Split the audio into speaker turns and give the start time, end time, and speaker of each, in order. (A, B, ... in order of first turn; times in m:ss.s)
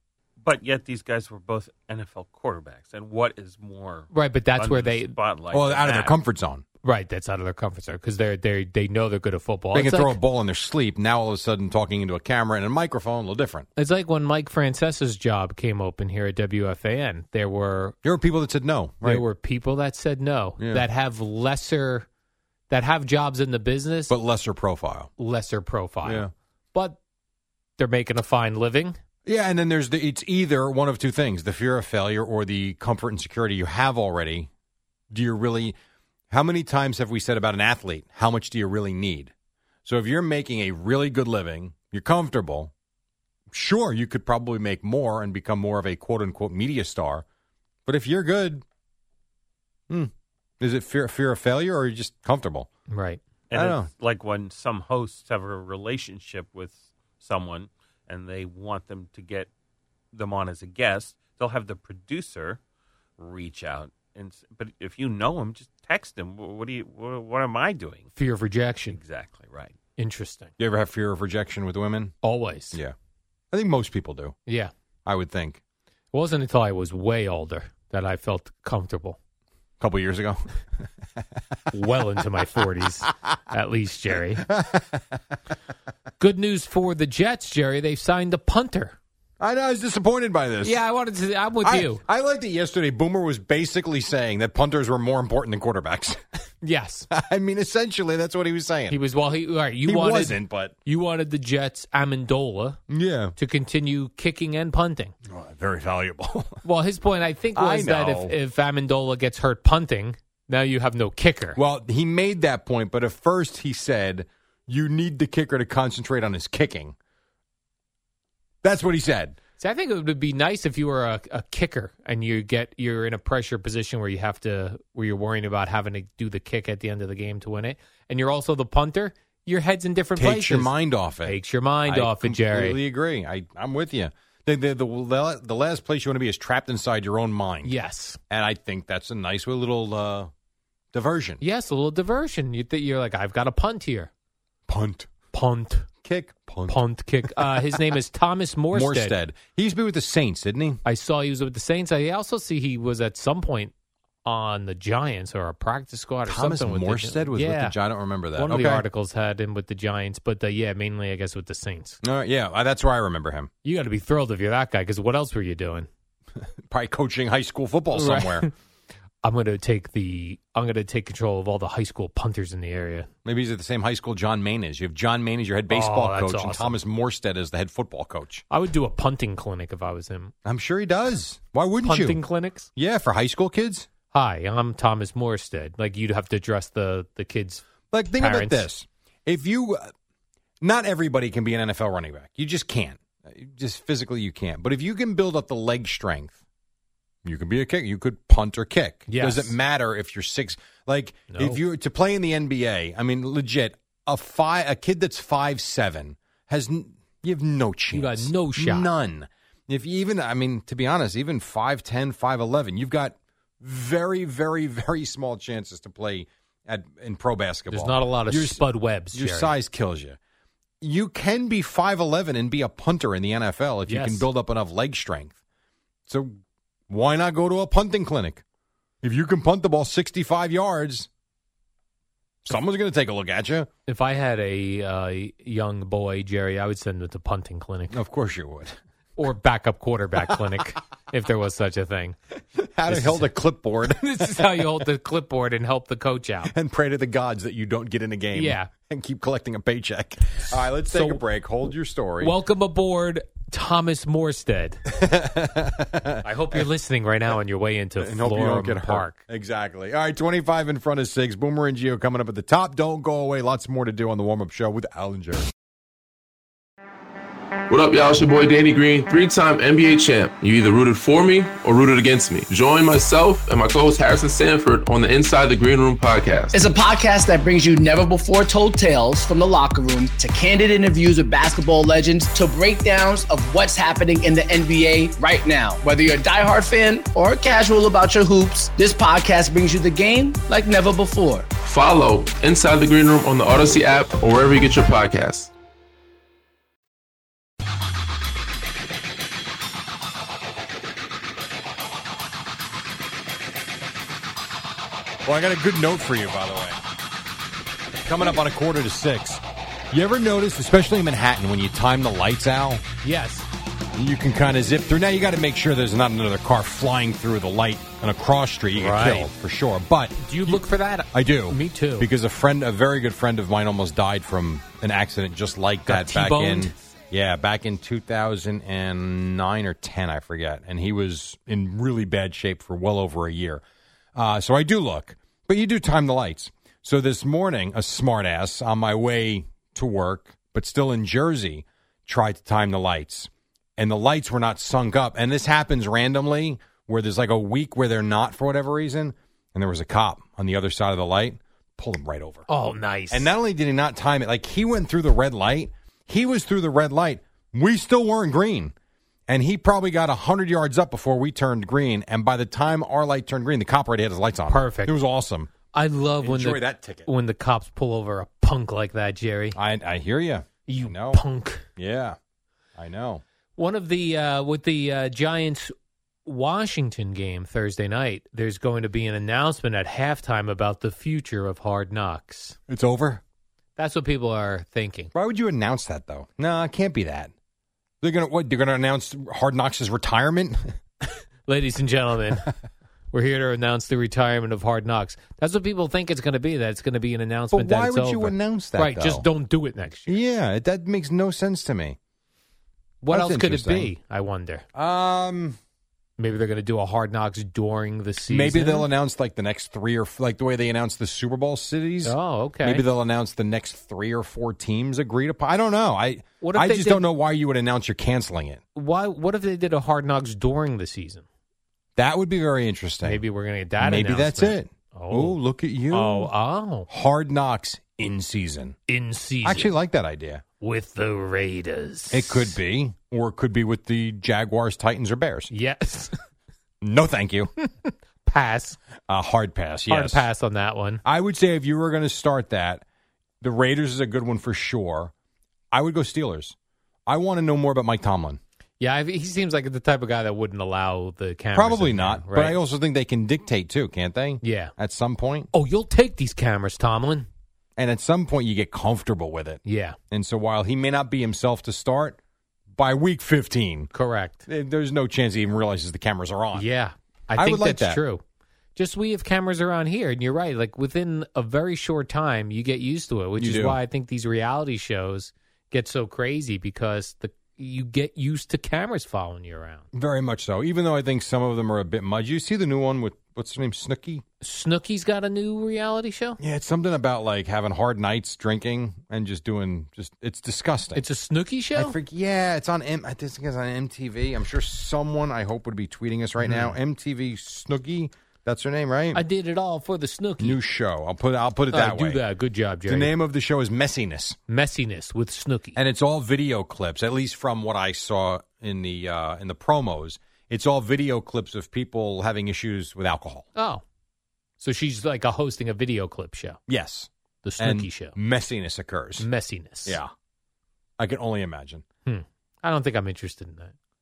0:00.4-0:06.2 A
0:04.1-0:05.2 B
0:05.5-0:06.6 C
0:06.8-0:10.2 B
0:09.7-0:13.7 C
0:13.8-0:18.0 B
0:18.0-0:19.2 C
0:19.0-0:22.1 B
0:20.6-0:20.8 C
0:22.7-0:24.1 B
0:24.1-0:25.1 C
0:25.2-0:27.0 B
0:26.0-0:26.3 C
0:27.8-0:29.0 B
0:29.2-0:34.5 C
0:35.1-0:35.8 C
0:36.3-0:39.3 C
0:39.8-0:42.7 C
0:43.5-0:47.2 C
0:47.9-0:48.6 C
0:49.9-0:52.7 C
0:52.9-0:53.2 B
0:53.5-0:59.5 A
0:53.5-0:53.9 C
1:00.1-1:02.6 A
1:03.2-1:08.1 A
1:08.2-1:09.0 B
1:08.9-1:09.8 A
1:10.0-1:10.5 B
1:10.6-1:12.2 C
1:12.2-1:12.8 B
1:13.5-1:14.4 C
1:14.5-1:14.7 B
1:15.1-1:15.6 C
1:16.1-1:19.2 B
1:19.8-1:20.4 C
1:21.7-1:24.4 B
1:24.4-1:25.0 C
1:26.2-1:29.0 B
1:29.4-1:30.8 C
1:30.6-1:32.0 B
1:31.6-1:36.2 C
1:36.6-1:37.1 B
1:37.1-1:39.0 C
1:38.9-1:42.8 B
1:39.9-1:40.8 C
1:42.9-1:43.4 C
1:43.4-1:45.1 B
1:45.3-1:46.6 C
1:46.6-1:51.6 B
1:47.6-1:48.4 C
1:51.6-1:57.0 C
1:58.6-1:59.4 C
1:59.6-2:10.7 B
2:10.2-2:17.7 C
2:11.2-2:12.8 B
2:17.6-2:18.2 B
2:18.3-2:20.3 C
2:20.9-2:21.4 C
2:21.4-2:24.1 B
2:24.7-2:25.1 C
2:25.3-2:25.9 B
2:26.0-2:27.8 C
2:26.7-2:29.2 B
2:28.7-2:30.8 C
2:30.8-2:33.7 B
2:34.2-2:37.8 B
2:36.3-2:38.8 C
2:38.4-2:42.0 B
2:42.0-2:43.5 C
2:43.6-2:45.9 B
2:46.7-2:48.5 C
2:47.9-2:48.5 B
2:49.2-2:53.1 B
2:53.2-2:58.4 C
2:55.7-2:56.8 B
2:58.5-3:00.3 B
3:00.4-3:02.2 C
3:01.8-3:02.7 B
3:02.8-3:03.9 C
3:04.1-3:08.7 B
3:07.9-3:09.9 C
3:10.6-3:16.4 C
3:17.2-3:40.2 C
3:19.1-3:19.6 B
3:21.3-3:21.6 B
3:27.9-3:28.9 B
3:37.7-3:39.5 B
3:40.8-3:45.4 C
3:43.9-3:44.3 B
3:46.1-3:46.4 C
3:46.9-3:48.4 C
3:49.0-3:51.1 C
3:52.5-3:53.7 C
3:53.9-3:58.0 B
3:57.9-3:58.8 C
3:59.2-4:02.2 B
4:00.3-4:00.6 C
4:02.6-4:04.7 C
4:02.9-4:03.3 B
4:03.9-4:06.5 B
4:06.5-4:12.4 C
4:08.3-4:08.7 B
4:10.9-4:11.2 B
4:12.2-4:14.8 B
4:14.9-4:16.7 C
4:16.2-4:19.2 B
4:18.0-4:25.5 C
4:27.7-4:36.6 D
4:36.5-4:51.5 E
4:51.6-4:55.5 D
5:05.2-5:06.8 C
5:08.0-5:12.8 C
5:13.0-5:13.5 B
5:14.0-5:33.6 C
5:18.8-5:19.3 B
5:20.2-5:22.1 B
5:25.9-5:26.7 B
5:34.2-5:52.5 C
5:52.5-5:53.3 B
5:53.1-5:58.7 C
5:59.3-6:05.5 C
6:04.5-6:04.9 B
6:05.7-6:09.6 B
6:06.2-6:07.1 C
6:09.5-6:11.2 C
6:10.7-6:11.6 B
6:11.8-6:12.2 C
6:12.8-6:13.2 C
6:13.6-6:15.7 B
6:16.3-6:22.6 B
6:22.7-6:23.2 C
6:23.8-6:25.1 B
6:25.2-6:27.3 C
6:28.0-6:30.8 C
6:31.0-6:32.5 B
6:33.1-6:40.2 B
6:37.5-6:39.3 C
6:40.1-6:42.0 C
6:43.0-6:44.6 B
6:43.1-6:43.9 C
6:44.8-6:45.6 C
6:46.2-6:48.9 B
6:48.3-6:58.6 C
6:52.0-6:52.8 B
6:56.4-6:57.0 B
6:58.8-7:01.2 B
7:02.0-7:03.2 C
7:03.0-7:05.4 B
7:03.8-7:06.3 C
7:05.9-7:06.9 B
7:06.9-7:08.8 C
7:08.9-7:09.7 B
7:09.4-7:10.4 C
7:10.6-7:12.6 B
7:12.1-7:15.5 C
7:15.5-7:16.1 B
7:16.8-7:17.5 C
7:17.6-7:18.8 B
7:19.1-7:20.3 C
7:19.9-7:21.0 B
7:21.0-7:22.8 C
7:23.4-7:25.1 C
7:25.7-7:26.6 C
7:27.1-7:28.4 C
7:28.8-7:32.6 B
7:31.5-7:35.5 C
7:34.4-7:34.7 B
7:35.5-7:37.3 B
7:37.8-7:42.2 C
7:39.6-7:40.0 B
7:42.8-7:43.9 C
7:43.9-7:44.4 B
7:44.5-7:46.7 C
7:46.5-7:48.2 B
7:47.4-7:48.0 C
7:48.8-7:59.8 B
7:53.4-7:53.8 C
7:59.9-8:04.2 C
8:04.4-8:06.4 B
8:06.4-8:11.0 C
8:11.0-8:12.0 B
8:11.8-8:19.2 C
8:16.4-8:16.8 B
8:19.1-8:20.6 B
8:20.4-8:22.2 C
8:21.7-8:23.1 B
8:22.9-8:24.4 C
8:24.5-8:25.8 B
8:25.8-8:33.5 C
8:33.6-8:33.8 B
8:34.6-8:36.6 B
8:36.7-8:39.3 C
8:37.4-8:38.2 B
8:39.2-8:40.0 B
8:39.8-8:40.1 C
8:41.0-8:41.8 C
8:42.0-8:43.7 B